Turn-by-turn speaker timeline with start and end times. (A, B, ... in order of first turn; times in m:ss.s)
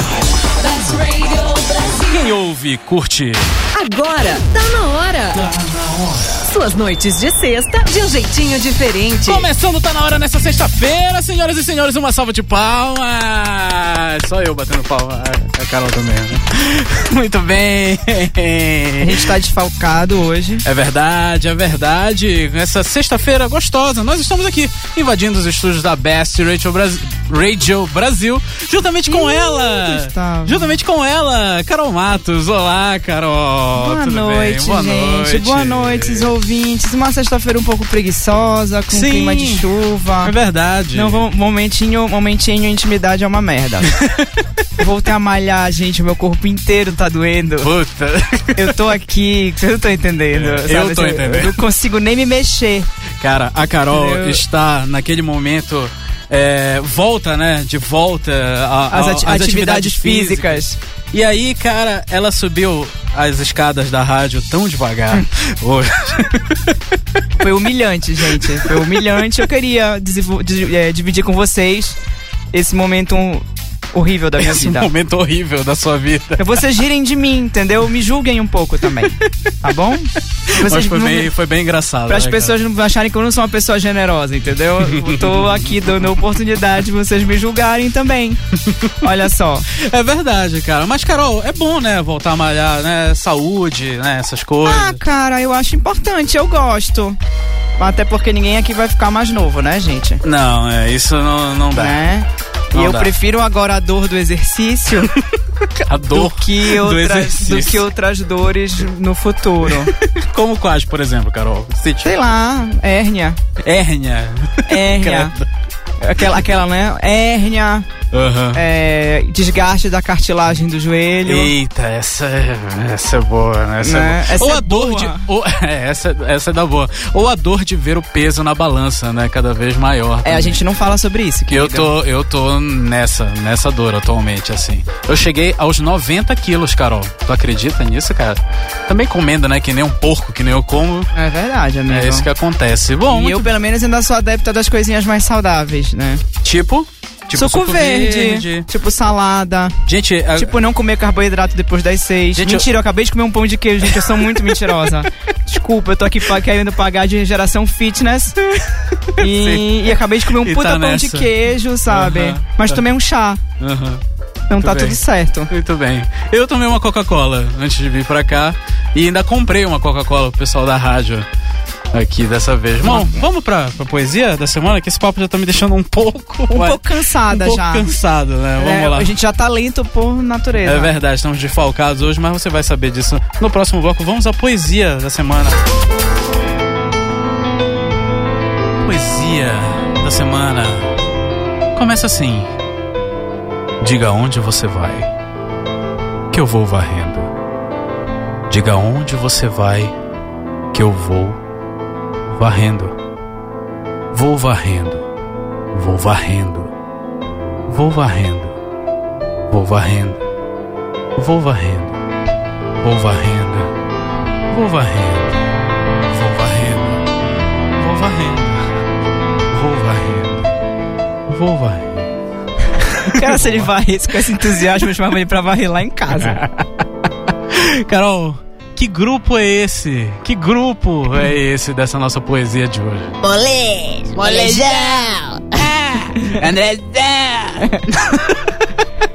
0:00.4-0:02.2 A
0:02.0-0:03.6 B
0:03.7-0:05.5 A
0:05.4-0:06.4 B
0:06.4-0:09.5 A
0:09.2-0:19.3 B
0:19.0-0:20.6 C
0:20.6-0:36.3 B
0:29.1-0:30.8 C
0:33.7-0:40.3 C
0:38.9-0:39.7 B
0:40.2-0:41.2 B
0:40.9-0:44.0 C
0:43.9-0:44.2 B
0:44.8-0:47.7 C
0:47.6-0:48.8 B
0:48.6-0:52.9 C
0:50.3-0:51.6 B
0:53.2-1:06.8 B
0:53.9-0:54.4 C
0:58.9-1:00.8 C
1:07.4-1:12.0 C
1:08.3-1:09.0 B
1:12.5-1:14.9 C
1:14.4-1:16.6 B
1:16.4-1:21.3 C
1:20.5-1:22.6 B
1:22.1-1:28.4 C
1:24.8-1:25.7 B
1:29.0-1:29.7 C
1:29.7-1:35.0 B
1:34.6-1:37.2 C
1:37.8-1:40.2 C
1:40.2-1:42.0 B
1:41.7-1:45.2 C
1:42.7-1:43.1 B
1:45.8-1:47.9 B
1:46.0-1:49.9 C
1:49.7-1:52.1 B
1:52.0-1:53.4 C
1:53.6-1:55.5 B
1:54.7-1:55.3 C
1:56.0-1:57.9 C
1:58.1-1:58.6 B
1:58.5-2:01.5 C
2:01.2-2:10.6 B
2:03.8-2:05.2 C
2:10.2-2:11.9 C
2:11.5-2:21.1 B
2:21.1-2:22.3 C
2:21.9-2:23.5 B
2:23.1-2:26.2 C
2:26.4-2:28.7 B
2:27.3-2:29.8 C
2:29.8-2:30.6 B
2:30.3-2:38.4 C
2:32.4-2:32.7 B
2:33.8-2:34.8 B
2:38.5-2:41.3 B
2:39.2-2:43.4 C
2:41.9-2:42.8 B
2:43.6-2:44.0 B
2:44.5-2:45.5 C
2:44.6-2:51.3 B
2:51.9-2:59.1 B
2:52.8-2:53.2 C
2:56.5-2:57.9 C
2:58.6-3:00.9 C
3:00.6-3:05.6 B
3:08.8-3:10.9 B
3:11.7-3:12.5 B
3:13.8-3:15.1 B
3:16.3-3:17.3 B
3:18.5-3:19.9 B
3:20.7-3:21.4 B
3:22.3-3:23.0 B
3:24.1-3:25.0 B
3:25.7-3:26.7 B
3:27.7-3:28.6 B
3:29.5-3:30.2 B
3:31.2-3:32.0 B
3:32.8-3:33.7 B
3:34.5-3:35.4 B
3:36.0-3:37.0 B
3:37.7-3:38.7 B
3:39.5-3:40.5 B
3:41.3-3:42.1 B
3:42.8-3:43.7 B
3:43.0-3:46.4 C
3:46.2-3:46.8 B
3:47.5-3:53.2 B
3:53.2-3:54.6 A
3:54.1-3:58.7 B
3:57.6-3:57.9 C